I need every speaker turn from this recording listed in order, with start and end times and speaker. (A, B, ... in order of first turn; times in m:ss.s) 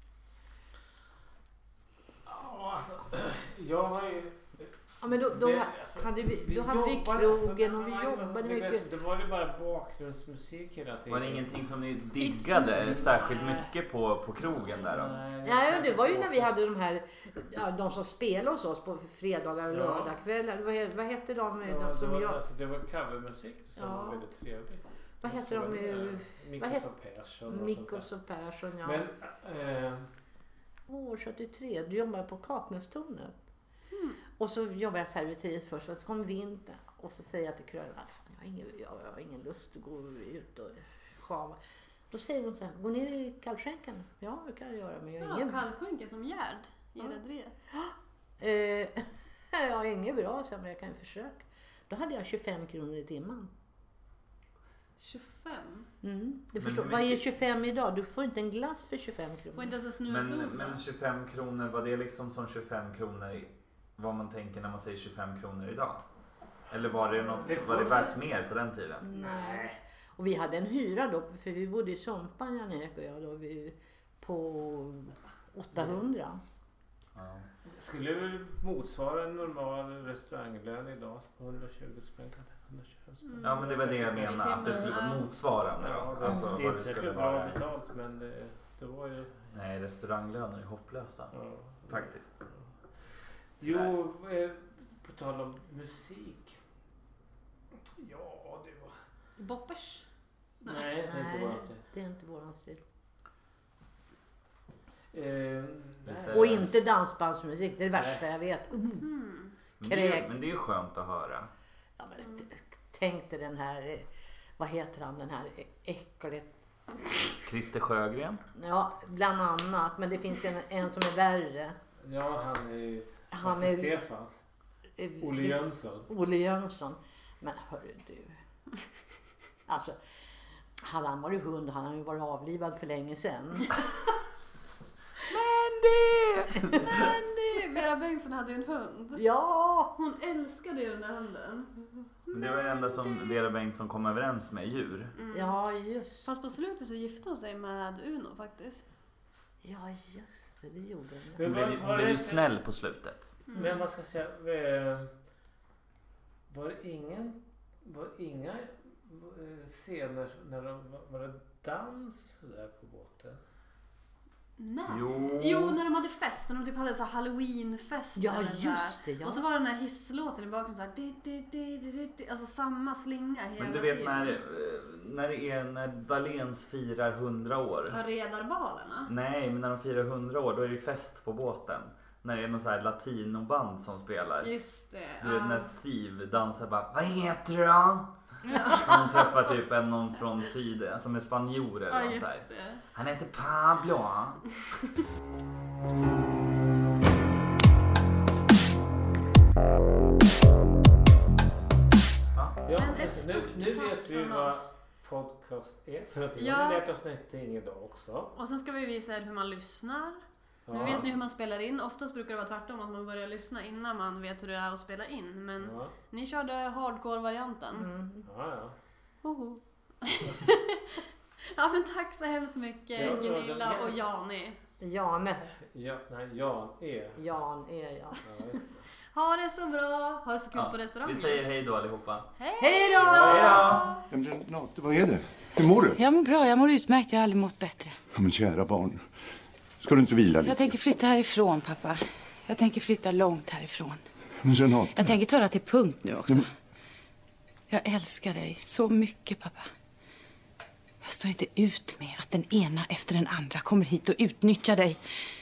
0:02.2-0:11.5 A
0:05.0-0:08.9 B
0:11.1-0:15.2 C
0:12.2-0:13.1 D
0:12.7-0:13.7 A
0:14.6-0:16.5 A
0:15.4-0:22.4 B
0:19.7-0:20.1 A
0:21.6-0:28.0 A
0:23.8-0:24.2 B
0:25.2-0:26.8 B
0:27.4-0:29.1 B
0:28.8-0:30.0 A
0:30.9-0:33.4 B
0:33.9-0:34.2 D
0:34.4-0:41.6 B
0:42.1-0:45.6 B
0:45.2-0:47.7 D
0:47.7-0:53.5 B
0:55.0-0:55.9 D
0:56.0-0:59.8 B
0:56.6-0:57.2 C
0:59.6-1:00.8 D
1:00.1-1:06.0 C
1:06.7-1:09.0 C
1:07.1-1:08.2 A
1:09.0-1:16.4 B
1:09.1-1:09.7 A
1:17.1-1:17.5 C
1:17.7-1:24.9 A
1:23.2-1:23.6 D
1:23.4-1:27.6 C
1:24.2-1:25.2 D
1:25.8-1:29.3 A
1:29.5-1:31.3 C
1:31.3-1:32.1 A
1:31.9-1:32.3 C
1:33.6-1:36.6 A
1:33.6-1:33.9 C
1:38.0-1:38.9 A
1:39.4-1:40.0 D
1:40.6-1:40.9 D
1:40.6-1:41.8 A
1:41.0-1:42.8 B
1:45.1-1:46.6 A
1:46.0-1:46.7 C
1:46.3-1:49.0 B
1:48.0-1:48.2 A
1:49.0-1:49.5 D
1:49.8-1:51.5 C
1:49.8-1:50.3 B
1:52.0-1:56.5 B
1:57.4-1:58.4 C
1:58.5-2:01.8 B
2:02.0-2:04.4 A
2:03.3-2:04.0 B
2:05.0-2:08.4 B
2:05.2-2:06.1 A
2:09.7-2:10.0 B
2:10.8-2:13.9 B
2:16.5-2:17.2 B
2:16.8-2:19.2 D
2:19.2-2:19.9 B
2:19.9-2:21.7 D
2:22.3-2:23.4 D
2:22.3-2:25.1 C
2:25.2-2:25.5 D
2:25.3-2:26.3 B
2:26.2-2:28.9 D
2:29.6-2:31.4 B
2:31.4-2:32.4 A
2:31.4-2:33.4 C
2:33.5-2:33.8 D
2:33.5-2:35.1 A
2:36.5-2:43.4 A
2:44.6-2:54.4 D
2:44.9-2:45.8 C
2:48.1-2:49.4 B
2:53.6-2:58.0 C
2:57.9-2:59.1 D
2:59.0-3:04.5 C
3:04.4-3:05.7 D
3:05.2-3:14.4 C
3:08.5-3:08.9 D
3:11.9-3:12.8 D
3:22.3-3:22.6 C
3:22.6-3:28.3 A
3:22.7-3:24.7 D
3:26.4-3:26.8 D
3:28.3-3:37.9 D
3:30.7-3:31.1 A
3:35.6-3:35.9 A
3:37.8-3:38.3 B
3:38.2-3:38.7 A
3:39.2-3:44.6 D
3:43.0-3:44.0 A
3:43.0-3:44.0 B
3:44.8-3:45.5 B
3:45.7-3:47.2 A
3:47.2-3:48.2 B
3:48.2-3:48.8 A
3:49.1-3:51.4 D
3:50.5-3:52.3 C
3:52.4-3:54.0 D
3:52.6-3:53.8 B
3:53.0-3:53.8 A
3:53.0-3:53.9 C
3:54.1-3:56.0 E
3:56.0-3:58.0 F
3:58.1-3:59.1 E
3:59.8-4:00.7 E
4:00.4-4:04.0 F
4:04.4-4:05.1 E
4:04.9-4:06.5 F
4:07.7-4:09.7 F
4:11.0-4:15.0 F